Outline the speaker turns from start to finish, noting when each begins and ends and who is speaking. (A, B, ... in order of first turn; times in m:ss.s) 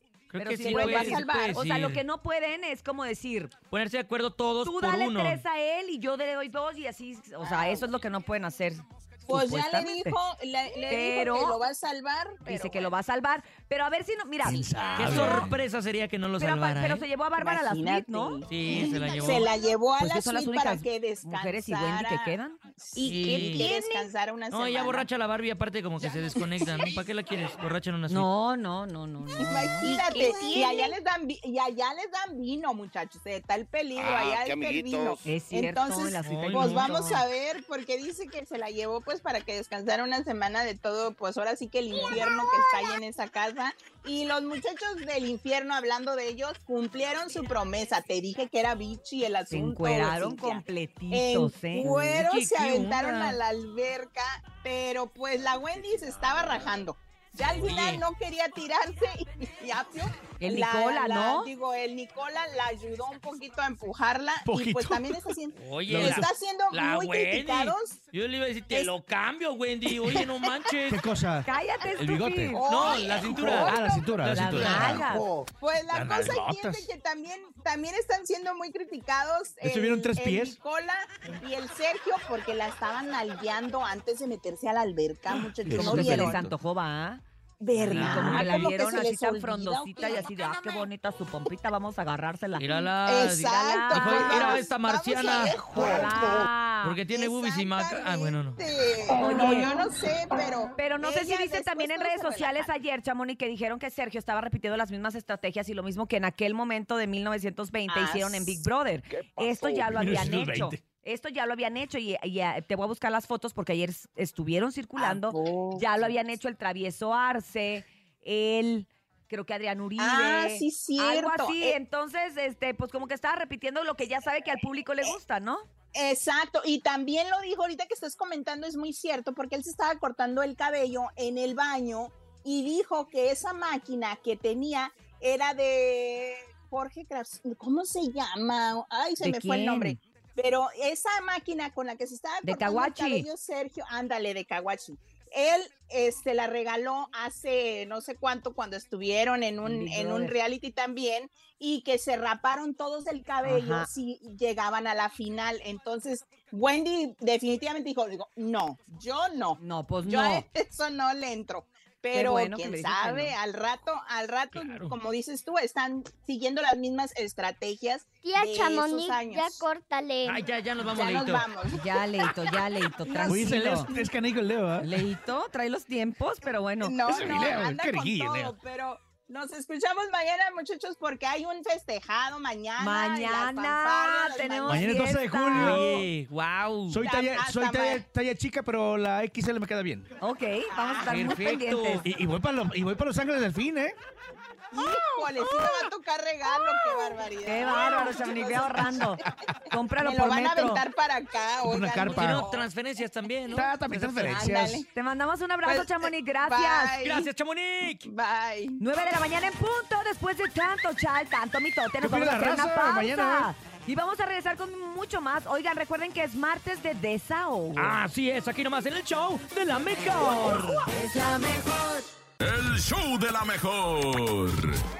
0:00.3-0:02.0 A
0:00.4-0:03.5 B
0:00.6-0:01.6 C
0:03.7-0:05.4 A
0:04.6-0:10.2 B
0:07.4-0:07.9 C
0:09.3-0:13.0 C
0:10.9-0:11.6 B
0:12.4-0:15.5 B
0:14.4-0:15.6 D
0:15.0-0:17.0 A
0:16.4-0:18.4 B
0:17.4-0:25.1 C
0:18.5-0:19.5 A
0:20.0-0:24.1 B
0:23.0-0:23.7 A
0:24.5-0:28.3 A
0:26.0-0:26.9 C
0:28.1-0:30.8 B
0:29.3-1:08.0 C
0:29.9-0:30.9 E
0:35.2-0:37.2 B
0:36.2-0:36.9 A
0:49.5-0:52.2 B
0:51.8-0:53.4 A
0:57.5-0:58.0 A
1:00.4-1:01.5 B
1:04.4-1:05.3 D
1:05.6-1:11.0 A
1:05.9-1:06.3 D
1:10.9-1:12.6 D
1:11.4-1:12.6 B
1:12.6-1:14.1 C
1:12.6-1:15.0 A
1:13.3-1:15.3 D
1:14.3-1:15.2 B
1:15.4-1:26.4 C
1:15.9-1:16.9 D
1:19.6-1:20.6 D
1:25.3-1:26.5 D
1:25.7-1:27.2 B
1:27.6-1:30.8 C
1:27.8-1:32.9 B
1:27.9-1:28.7 A
1:32.6-1:35.7 A
1:33.0-1:36.4 C
1:33.4-1:34.6 B
1:35.3-1:37.0 B
1:36.8-1:38.6 A
1:37.1-1:42.7 C
1:39.2-1:39.7 B
1:40.8-2:05.6 B
1:47.9-1:48.6 C
1:49.1-1:50.8 D
1:55.0-1:56.1 C
2:00.0-2:01.8 C
2:05.9-2:49.6 C
2:19.2-2:20.0 B
2:22.4-2:23.3 B
2:29.6-2:30.3 B
2:33.4-2:33.9 B
2:39.6-2:40.4 B
2:42.1-2:43.3 B
2:44.5-2:44.9 A
2:48.2-2:50.4 E
2:50.2-2:51.4 A
2:50.8-2:51.8 C
2:51.7-2:53.9 B
2:53.0-2:54.1 C
2:53.3-2:54.9 D
2:54.8-2:56.9 B
2:56.8-3:04.9 C
2:57.0-2:58.6 D
3:02.8-3:06.0 B
3:04.6-3:06.0 D
3:05.5-3:07.0 A
3:06.9-3:10.1 D
3:07.0-3:08.0 C
3:10.2-3:12.0 B
3:10.7-3:11.1 C
3:11.1-3:12.0 A
3:12.0-3:14.0 D
3:14.7-3:19.0 C
3:16.6-3:20.8 B
3:20.0-3:22.6 C
3:21.6-3:22.5 D
3:22.1-3:24.4 A
3:23.5-3:24.8 D
3:24.4-3:24.8 C
3:24.9-3:27.0 B
3:25.6-3:27.3 C
3:27.0-3:28.1 A
3:28.0-3:28.8 C
3:28.8-3:38.0 B
3:32.0-3:33.5 D
3:37.8-3:40.8 A
3:40.9-3:42.0 B
3:42.4-3:44.8 F